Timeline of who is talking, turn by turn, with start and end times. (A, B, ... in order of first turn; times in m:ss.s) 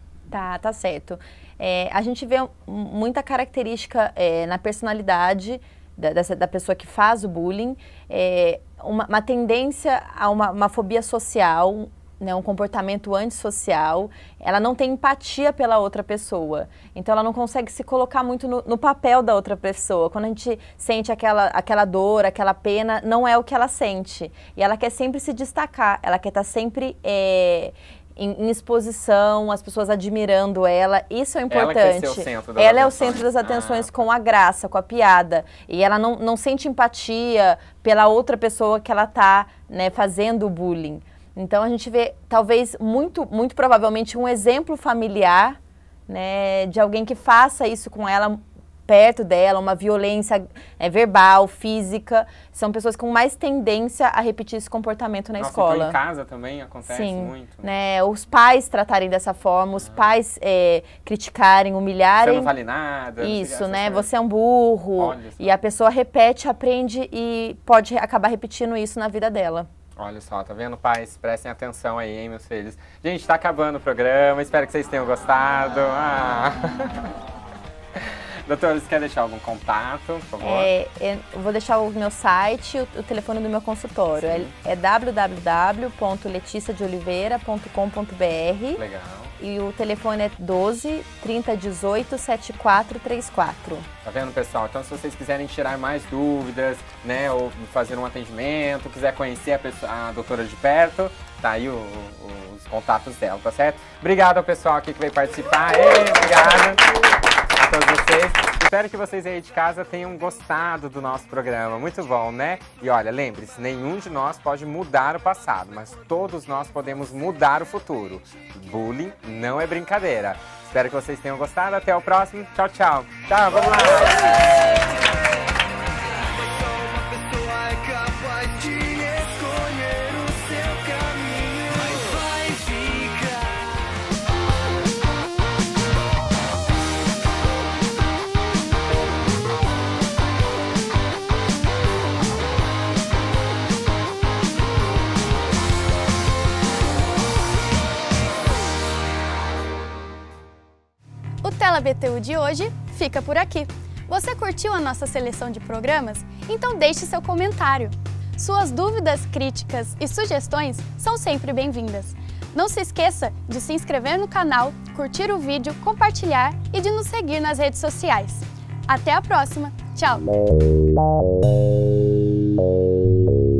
0:00.3-0:56.0 A
0:31.5-0:34.0 B
0:55.4-0:57.7 B
0:56.9-1:02.5 A
0:59.8-1:00.2 B
1:02.2-1:04.1 B
1:03.2-1:09.7 A
1:05.0-1:05.6 B
1:10.0-1:17.1 B
1:18.0-1:20.7 B
1:20.4-1:28.8 A
1:24.2-1:24.5 B
1:28.8-1:29.3 B
1:29.4-1:33.9 A
1:34.0-1:46.8 B
1:47.6-2:04.2 B
2:31.4-2:50.3 C